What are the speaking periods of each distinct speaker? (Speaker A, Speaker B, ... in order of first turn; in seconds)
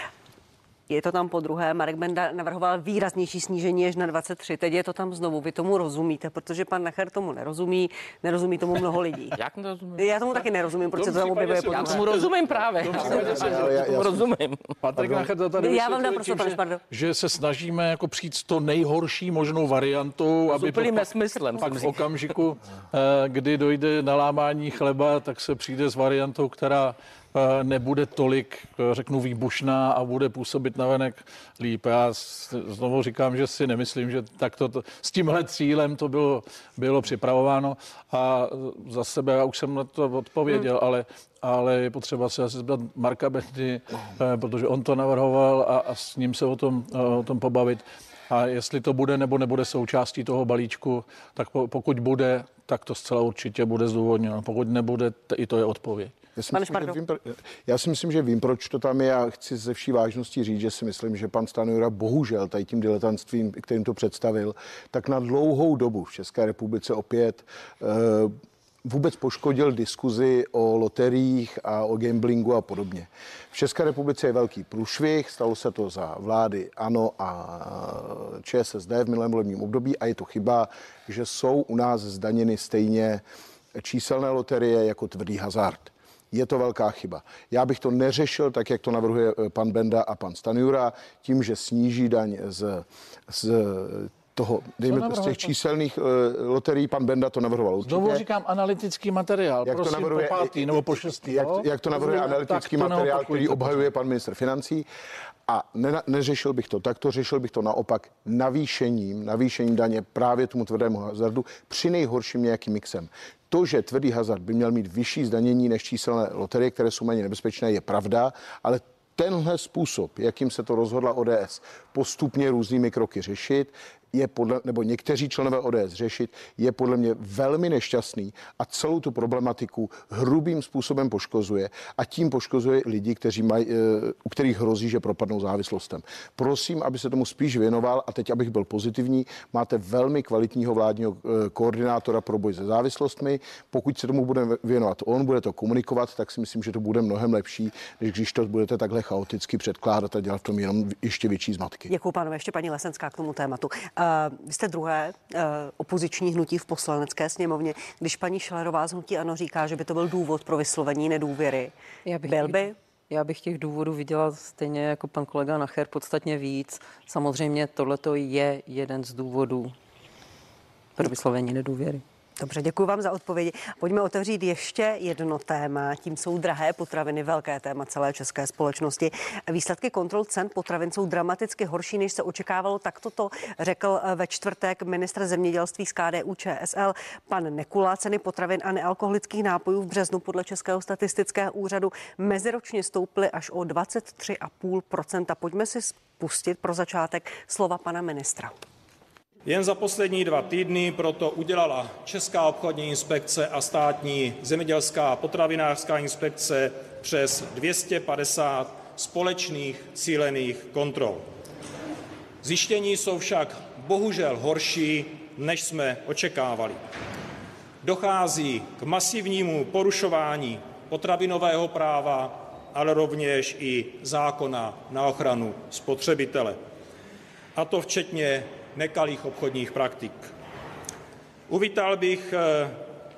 Speaker A: 0.9-9.4, 10.0-12.1, 15.6-16.8, 56.5-57.0, 151.9-161.7, 162.3-162.8, 172.4-198.5
Speaker B: 9.4-10.4, 11.7-14.7, 20.5-22.1
Speaker C: 10.9-13.8, 14.8-56.1, 94.9-95.5, 97.8-103.9
Speaker D: 12.9-14.2, 56.4-68.3, 68.8-83.2, 83.8-98.2, 99.7-104.9, 105.5-151.9
Speaker E: 162.1-169.7, 171.0-172.0
Speaker F: 199.4-211.3, 212.4-216.8, 217.8-226.6, 227.6-230.3, 231.5-232.8